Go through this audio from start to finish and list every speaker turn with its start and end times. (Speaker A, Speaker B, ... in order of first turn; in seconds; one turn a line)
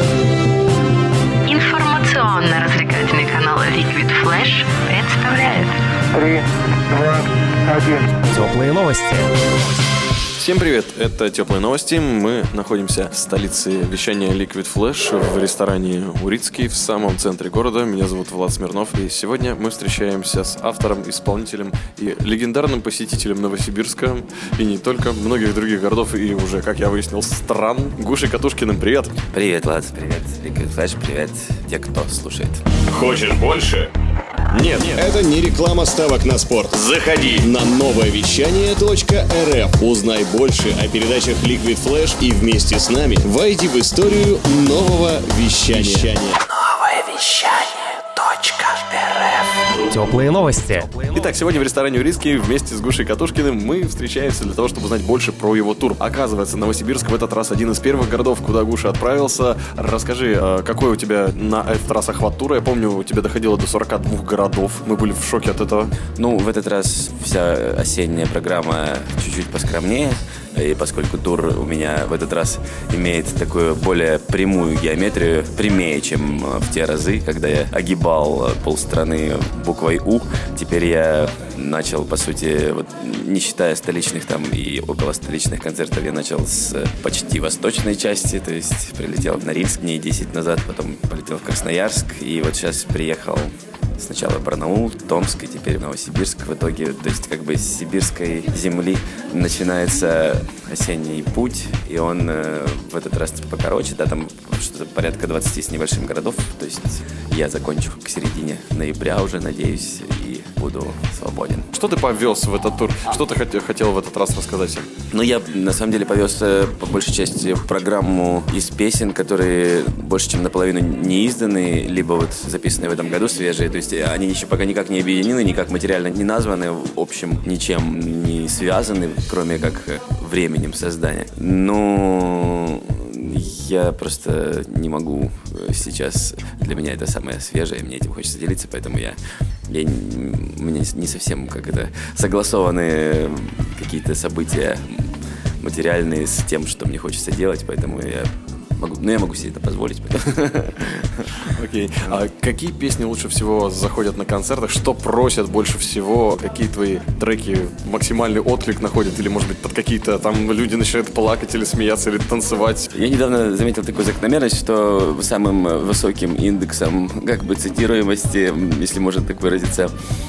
Speaker A: 1.5-6.3
Speaker B: 8.1-9.3
Speaker C: 10.4-29.1
Speaker D: 29.3-32.6
Speaker E: 32.9-33.9
Speaker E: 34.5-46.4
Speaker B: 49.9-51.2
Speaker C: 51.1-65.9
Speaker D: 66.2-111.7
Speaker C: 111.7-114.9
Speaker D: 115.1-151.3
Speaker C: 151.4-162.9
Speaker D: 162.9-169.9